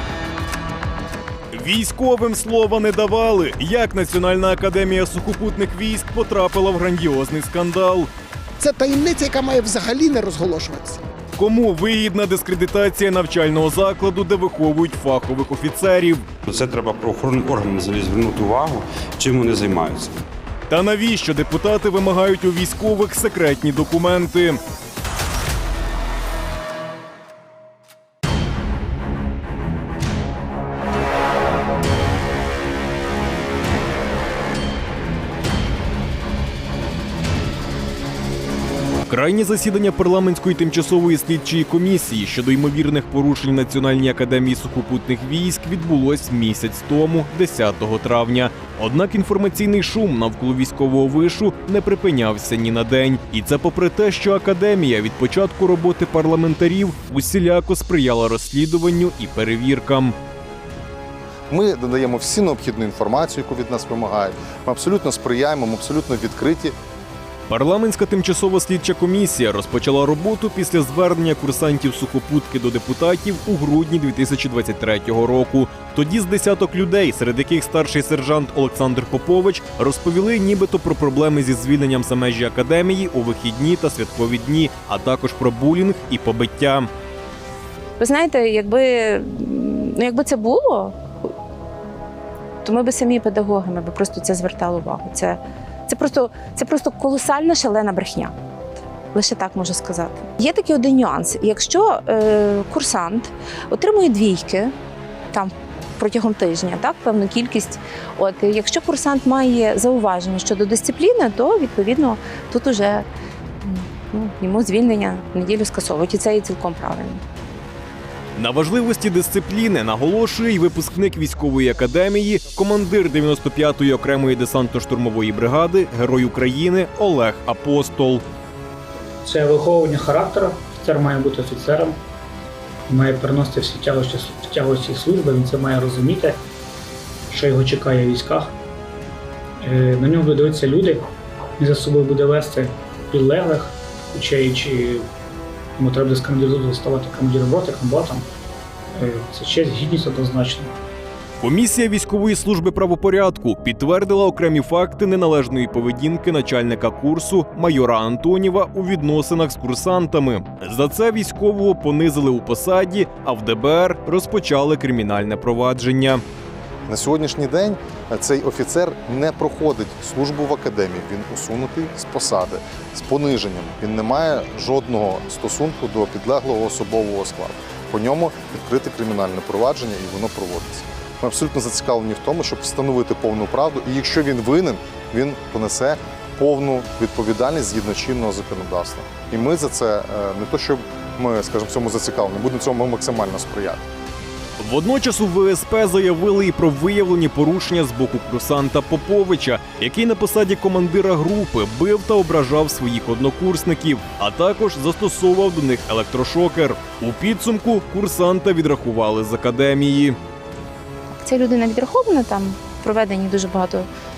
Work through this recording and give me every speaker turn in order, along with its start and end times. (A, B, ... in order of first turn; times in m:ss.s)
0:01.5-0:08.1 A
0:08.6-0:11.0 B
0:11.4-0:16.2 A
0:16.5-0:20.1 C
0:20.7-0:24.6 A
0:39.1-1:00.1 A
1:01.5-1:06.7 D
1:07.5-1:26.9 A
1:28.0-1:31.0 E
1:32.6-1:38.3 E
1:39.1-1:44.7 E
1:45.3-1:53.0 E
1:53.6-1:57.2 E
1:58.4-2:08.2 A
2:09.2-2:12.0 F
2:12.9-2:16.4 F
2:17.3-2:18.5 F
2:19.6-2:21.0 F
2:21.6-2:25.0 F
2:25.8-2:28.2 F
2:29.0-2:30.7 F
2:31.4-2:46.2 A
2:46.9-3:13.8 D
3:14.6-3:30.2 A
3:31.2-3:33.9 E